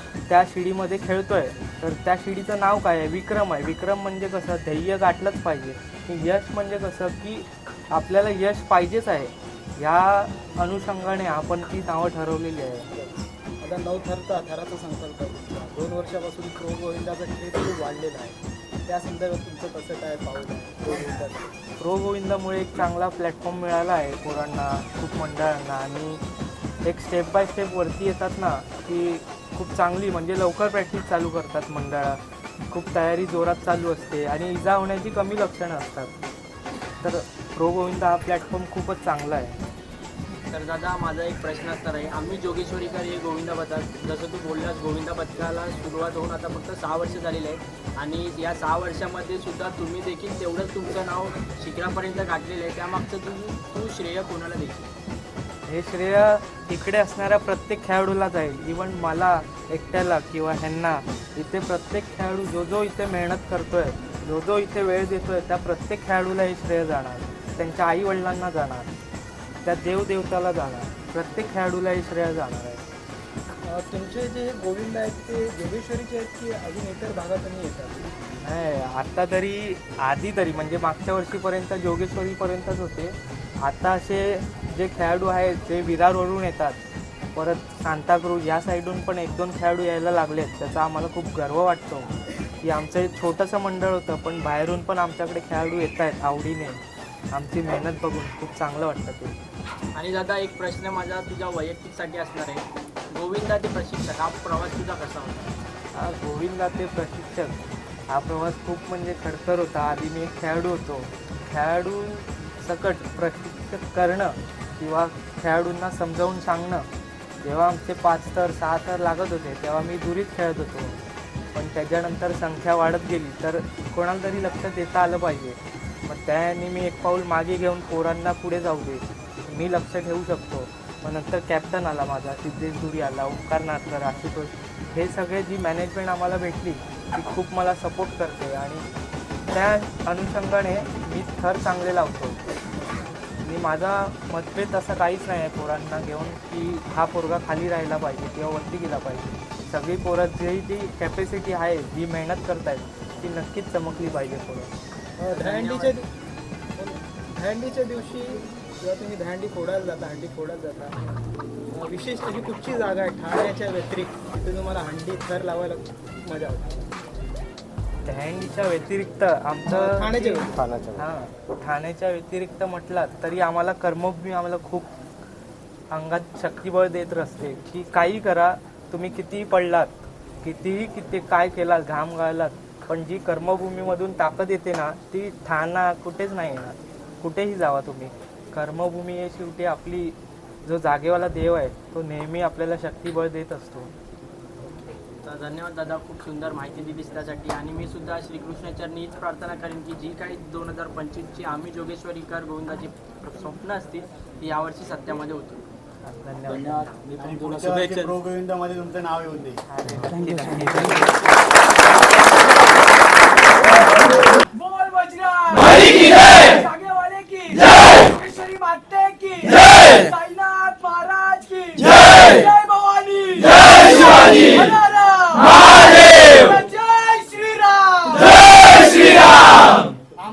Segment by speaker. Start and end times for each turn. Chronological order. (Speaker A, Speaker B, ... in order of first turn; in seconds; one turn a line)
Speaker A: 0.3-12.9
Speaker B: 12.9-21.5
Speaker A: 21.8-26.2
Speaker A: 26.8-36.1
Speaker A: 37.0-39.6
Speaker C: 40.5-54.9
Speaker A: 55.7-68.9
Speaker A: 69.6-72.8
Speaker B: 73.6-78.1
Speaker A: 78.4-86.8
Speaker A: 87.3-96.8
Speaker A: 97.3-99.3
Speaker C: 100.0-105.5
Speaker A: 105.9-107.6
Speaker A: 108.1-116.9
Speaker A: 117.4-121.0
Speaker A: 121.5-138.8
Speaker A: 139.5-142.4
Speaker A: 143.4-154.7
Speaker B: 155.2-156.1
Speaker C: 155.3-156.0
Speaker B: 156.8-161.0
Speaker B: 161.7-166.8
Speaker A: 168.0-174.9
Speaker B: 169.7-170.5
Speaker A: 175.9-193.9
Speaker C: 195.2-205.7
Speaker A: 206.0-207.0
Speaker C: 207.0-208.2
Speaker D: 207.2-209.6
Speaker A: 209.7-211.2
Speaker E: 214.6-229.4